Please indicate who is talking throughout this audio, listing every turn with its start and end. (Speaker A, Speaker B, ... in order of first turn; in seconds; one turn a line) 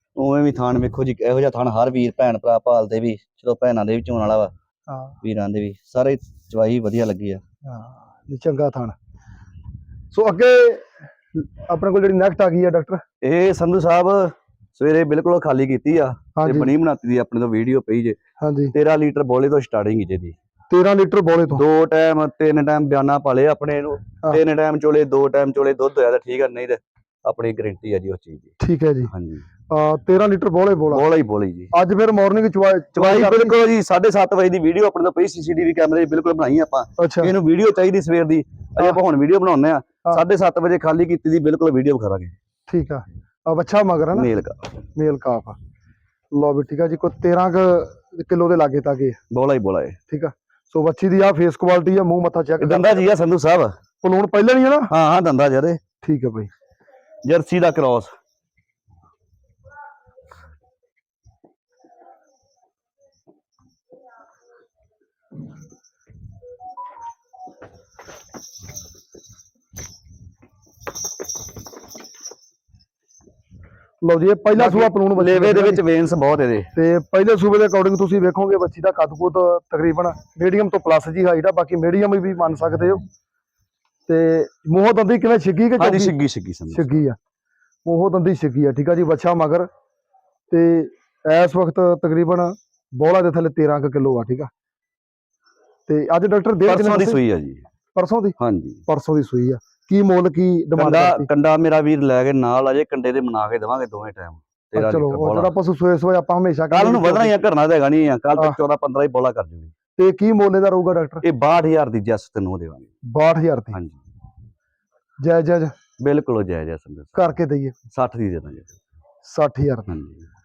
Speaker A: 0.1-4.5
Speaker B: 4.9-5.1
Speaker A: 5.2-7.4
Speaker B: 7.7-8.9
Speaker B: 10.1-13.0
Speaker A: 13.2-18.2
Speaker B: 16.4-16.7
Speaker B: 18.4-18.7
Speaker A: 18.7-20.3
Speaker B: 20.7-21.6
Speaker A: 21.5-28.5
Speaker B: 28.6-29.1
Speaker A: 29.1-29.4
Speaker B: 29.7-31.0
Speaker A: 30.9-31.7
Speaker B: 31.7-33.6
Speaker A: 33.0-42.3
Speaker B: 37.0-37.3
Speaker B: 42.7-44.3
Speaker A: 44.1-44.8
Speaker B: 45.0-45.6
Speaker B: 46.3-49.2
Speaker A: 49.3-50.0
Speaker B: 50.1-53.0
Speaker A: 52.6-53.7
Speaker B: 54.0-54.9
Speaker A: 54.9-55.8
Speaker B: 56.0-56.5
Speaker A: 57.2-58.1
Speaker B: 74.0-75.8
Speaker A: 74.5-76.7
Speaker B: 76.7-83.0
Speaker B: 84.1-86.1
Speaker A: 85.8-87.0
Speaker B: 86.7-87.2
Speaker B: 87.8-89.7
Speaker B: 90.5-94.5
Speaker B: 95.9-97.2
Speaker A: 96.7-97.6
Speaker B: 98.0-101.3
Speaker A: 98.4-98.8
Speaker A: 100.8-105.5
Speaker B: 104.7-107.3
Speaker A: 106.7-109.7
Speaker B: 110.0-111.2
Speaker A: 111.2-112.9
Speaker B: 113.1-113.8
Speaker B: 115.2-115.7
Speaker A: 116.0-117.3
Speaker B: 117.2-117.8
Speaker A: 117.9-118.7
Speaker B: 119.2-119.9
Speaker A: 119.9-120.2